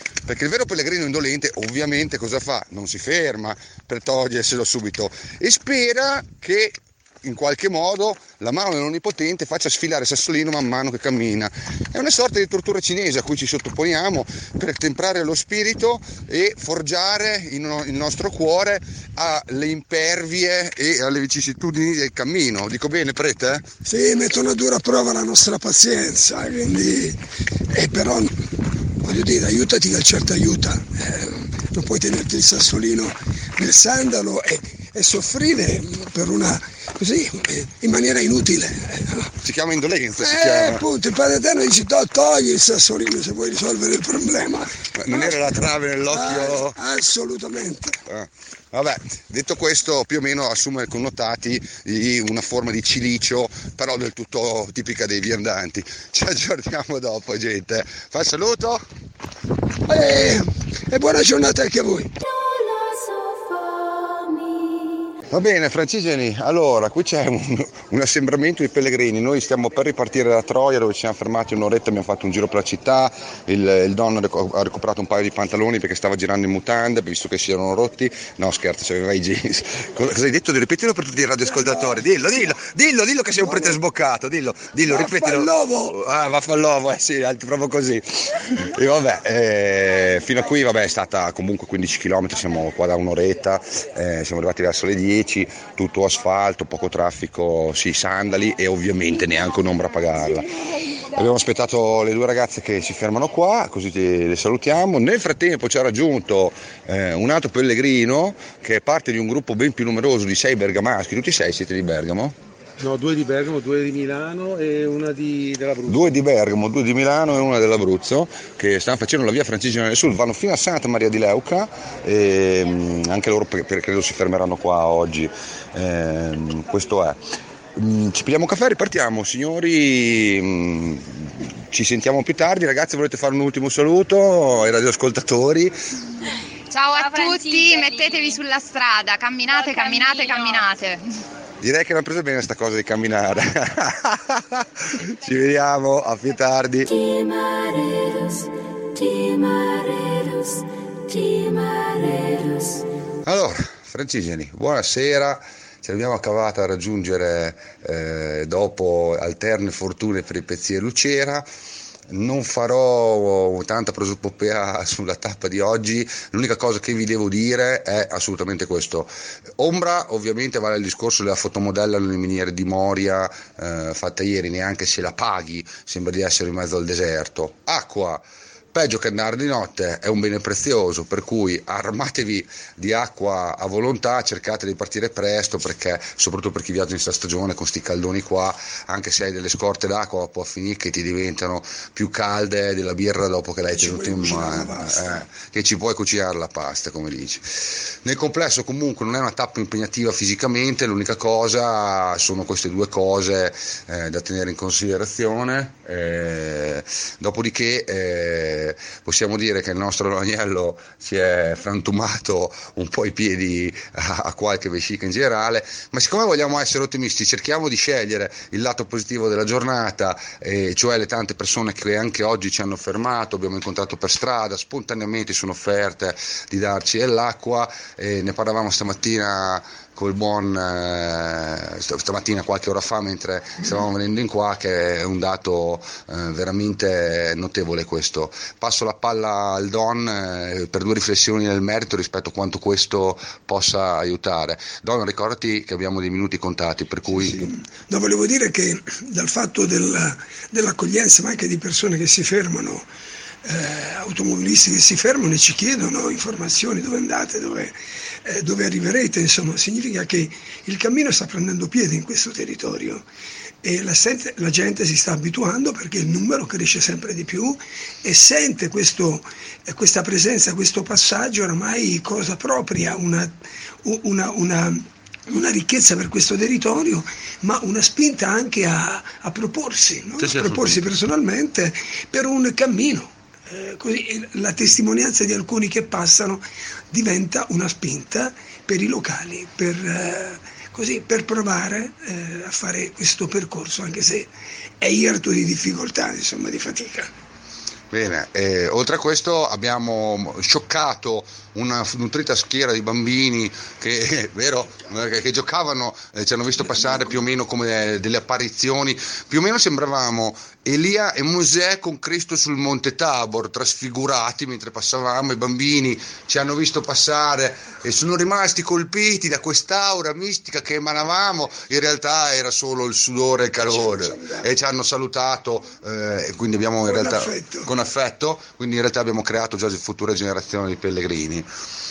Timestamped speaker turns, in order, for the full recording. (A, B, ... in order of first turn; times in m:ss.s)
0:00.2-0:23.6 A
0:23.8-0:27.2 B
0:27.7-0:28.3 B
0:29.0-0:39.3 B
0:39.4-0:40.8 A
0:40.2-0:45.5 B
0:45.0-0:46.8 A
0:46.1-0:48.0 B
0:48.0-0:58.8 A
0:59.9-1:02.1 B
1:05.3-1:40.5 A
1:21.5-1:22.0 B
1:23.4-1:23.8 B
1:24.9-1:25.9 B
1:41.1-1:52.4 A
1:52.8-1:56.0 C
1:55.8-2:07.2 A
2:07.8-2:15.7 A
2:16.7-2:21.0 D
2:21.6-2:27.0 A
2:33.2-2:41.4 A
2:42.1-4:07.4 A
3:13.7-3:15.2 B
4:07.1-4:12.9 B
4:13.4-4:23.0 B
4:23.6-4:54.3 B
4:40.2-4:40.8 A
4:54.8-4:57.1 B
4:57.9-5:31.5 A
5:23.7-5:24.4 B
5:26.8-5:27.7 B